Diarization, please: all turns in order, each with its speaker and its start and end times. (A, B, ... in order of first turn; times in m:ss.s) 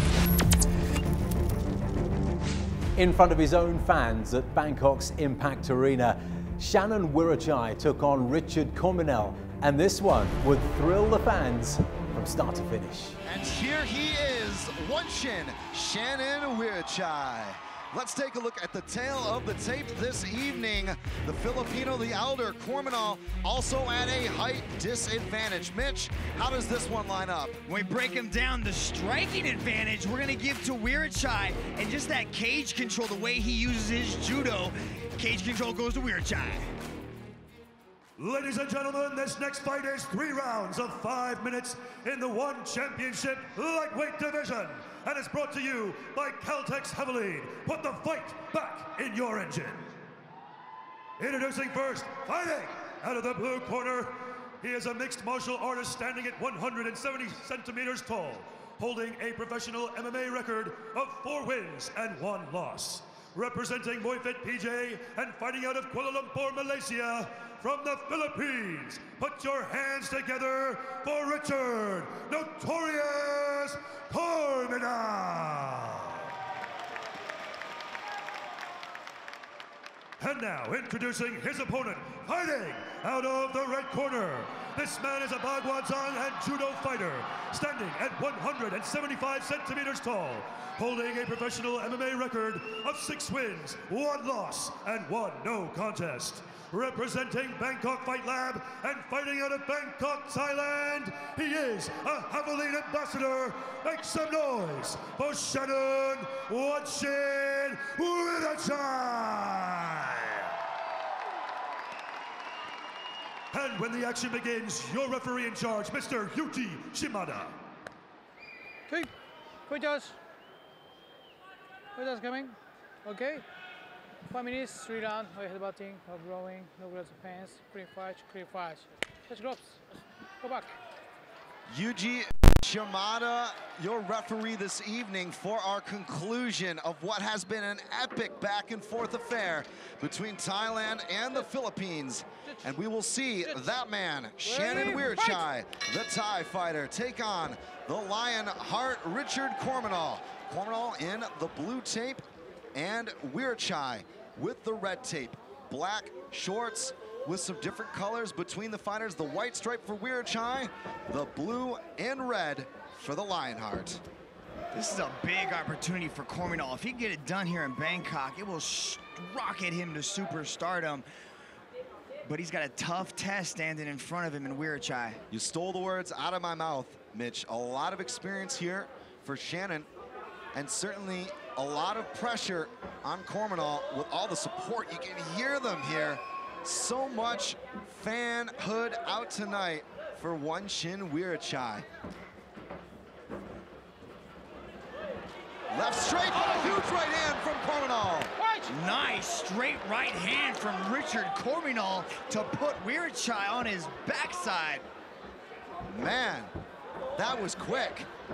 0:03.0-0:13.2 A
0:13.2-0:27.6 B
0:27.7-0:36.7 C
0:38.2-0:49.9 D
0:51.2-1:16.2 D
1:20.2-1:50.5 D
1:53.5-1:57.6 D
1:59.7-2:00.2 E
2:02.0-2:03.4 E
2:04.3-2:09.8 E
2:10.4-2:10.7 E
2:11.7-2:32.2 B
2:24.6-2:25.0 E
2:32.7-2:44.0 B
2:44.7-2:51.0 C
2:52.3-2:55.2 C
2:55.3-2:59.9 B
3:00.5-3:11.9 B
3:15.7-3:18.4 B
3:18.7-3:24.8 C
3:25.9-3:26.5 B
3:27.2-3:28.1 B